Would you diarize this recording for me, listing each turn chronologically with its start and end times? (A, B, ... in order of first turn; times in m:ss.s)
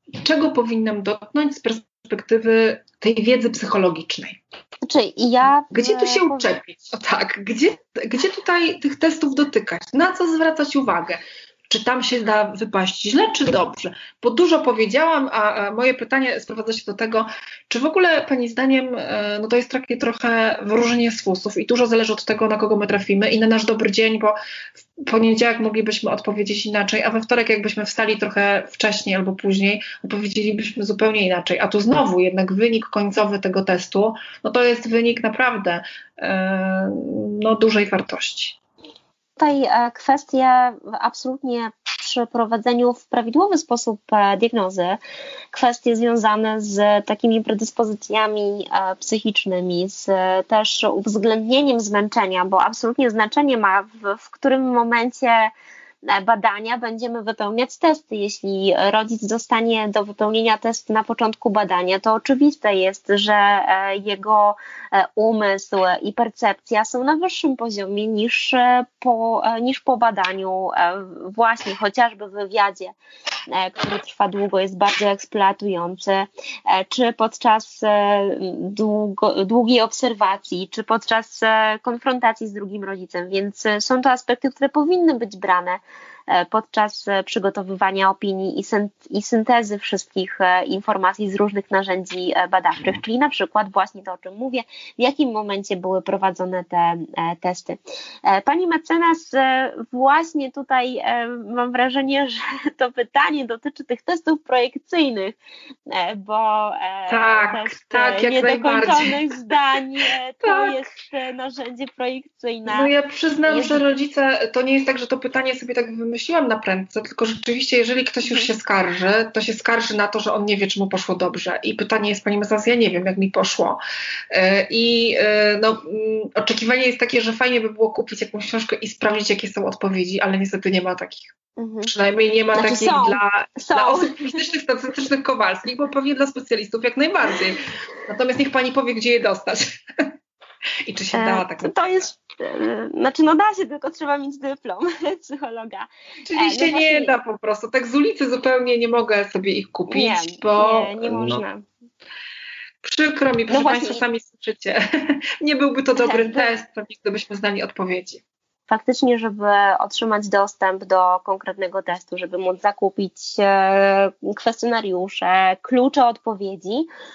0:00.2-0:04.4 A
0:04.8-0:06.5 B
0:05.7-0:24.4 A
0:25.0-0:38.6 A
0:39.4-0:45.0 B
0:45.5-0:55.5 B
0:56.0-1:13.0 B
1:13.5-1:45.4 B
1:45.9-1:52.9 B
1:47.1-1:49.2 A
1:50.4-1:50.8 A
1:52.7-2:03.8 A
1:53.5-1:53.8 B
2:04.3-2:11.3 A
2:11.6-2:11.9 B
2:11.8-2:20.1 A
2:12.5-2:14.4 B
2:20.8-2:21.9 A
2:21.1-2:27.1 B
2:26.3-2:31.4 A
2:29.9-2:31.6 B
2:32.8-2:34.8 A
2:33.5-2:34.0 B
2:35.4-2:38.2 A
2:36.0-2:36.5 B
2:38.7-2:46.9 B